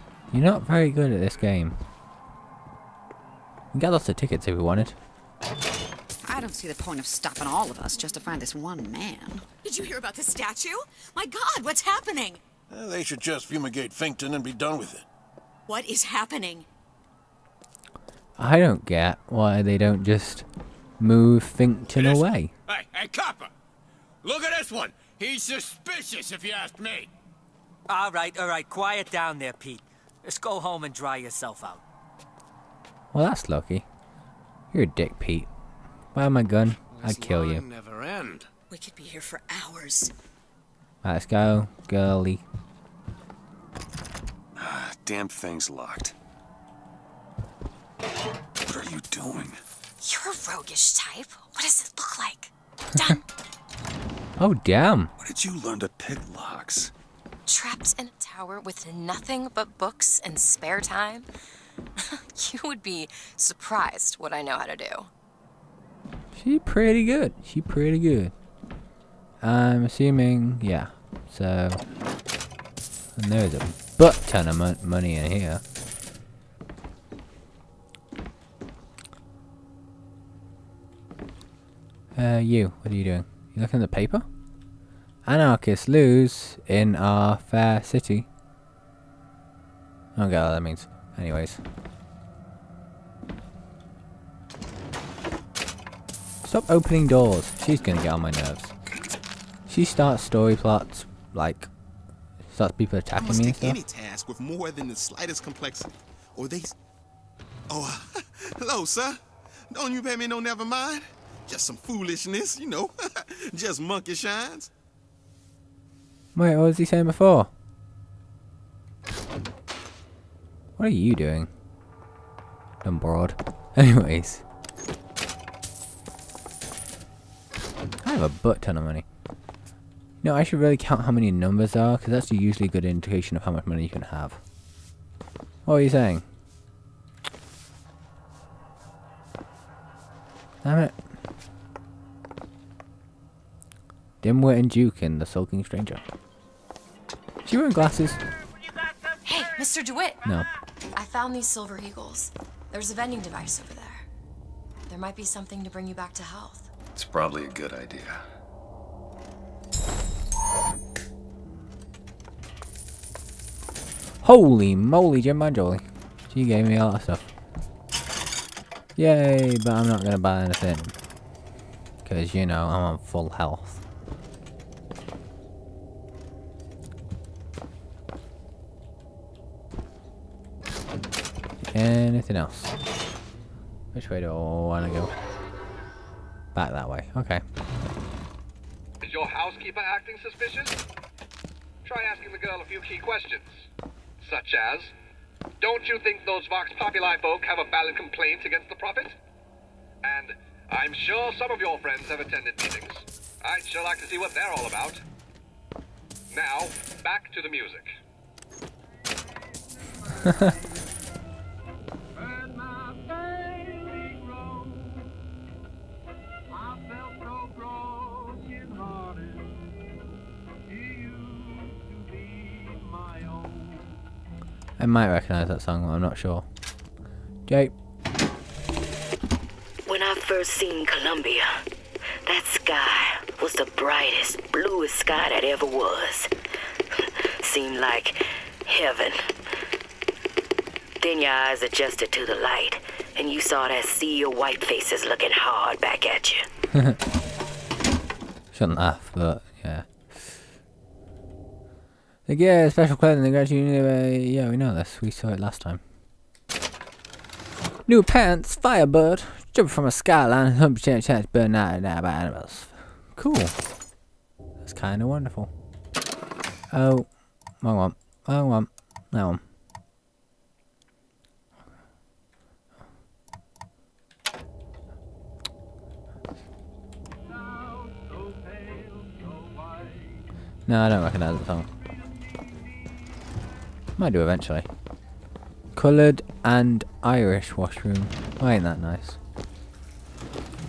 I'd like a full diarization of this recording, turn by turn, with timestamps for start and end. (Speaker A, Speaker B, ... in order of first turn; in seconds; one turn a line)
Speaker A: 0.3-1.8
Speaker A: 3.7-5.0
Speaker B: 6.2-9.5
Speaker C: 9.6-12.4
Speaker D: 12.7-15.1
Speaker C: 15.7-16.6
Speaker A: 18.4-20.5
Speaker A: 21.0-22.5
Speaker E: 24.3-27.1
Speaker F: 27.9-31.8
Speaker A: 33.1-33.9
Speaker A: 34.7-35.5
Speaker A: 36.1-37.7
Speaker C: 38.7-40.1
Speaker A: 41.0-42.4
Speaker G: 44.6-46.1
Speaker G: 48.7-49.6
Speaker H: 50.0-53.2
Speaker A: 54.4-55.1
Speaker G: 55.2-56.9
Speaker H: 57.5-61.3
Speaker H: 62.0-65.1
Speaker A: 66.3-68.3
Speaker A: 69.4-71.8
Speaker A: 73.2-75.6
Speaker A: 82.2-84.3
Speaker A: 85.3-88.3
Speaker A: 90.2-91.6
Speaker A: 96.5-98.7
Speaker A: 99.7-101.7
Speaker A: 102.5-103.8
Speaker I: 103.2-106.7
Speaker I: 107.7-109.2
Speaker I: 109.7-114.7
Speaker A: 116.3-117.5
Speaker A: 120.8-121.5
Speaker A: 122.8-124.4
Speaker A: 128.0-129.1
Speaker A: 130.2-134.4
Speaker A: 135.7-136.2
Speaker A: 140.6-140.9
Speaker A: 144.2-146.0
Speaker A: 147.5-148.2
Speaker H: 149.2-150.2
Speaker H: 150.9-154.1
Speaker H: 154.9-156.7
Speaker G: 157.0-158.2
Speaker A: 164.2-167.3
Speaker A: 169.0-170.9
Speaker A: 172.1-173.8
Speaker A: 181.7-182.7
Speaker A: 183.9-185.1
Speaker A: 186.6-187.4
Speaker J: 189.0-190.8
Speaker J: 191.8-193.6
Speaker J: 194.2-194.9
Speaker J: 195.6-199.1
Speaker J: 200.0-205.0
Speaker J: 206.3-207.9
Speaker A: 224.8-226.5
Speaker A: 227.5-227.7
Speaker K: 229.9-231.5
Speaker K: 232.2-236.3
Speaker K: 237.4-239.2
Speaker K: 241.0-246.5
Speaker A: 248.5-250.2
Speaker A: 252.3-255.8
Speaker A: 257.9-263.6
Speaker A: 264.6-265.5
Speaker A: 266.7-269.4
Speaker A: 280.7-281.7
Speaker A: 284.0-284.7
Speaker A: 285.7-289.2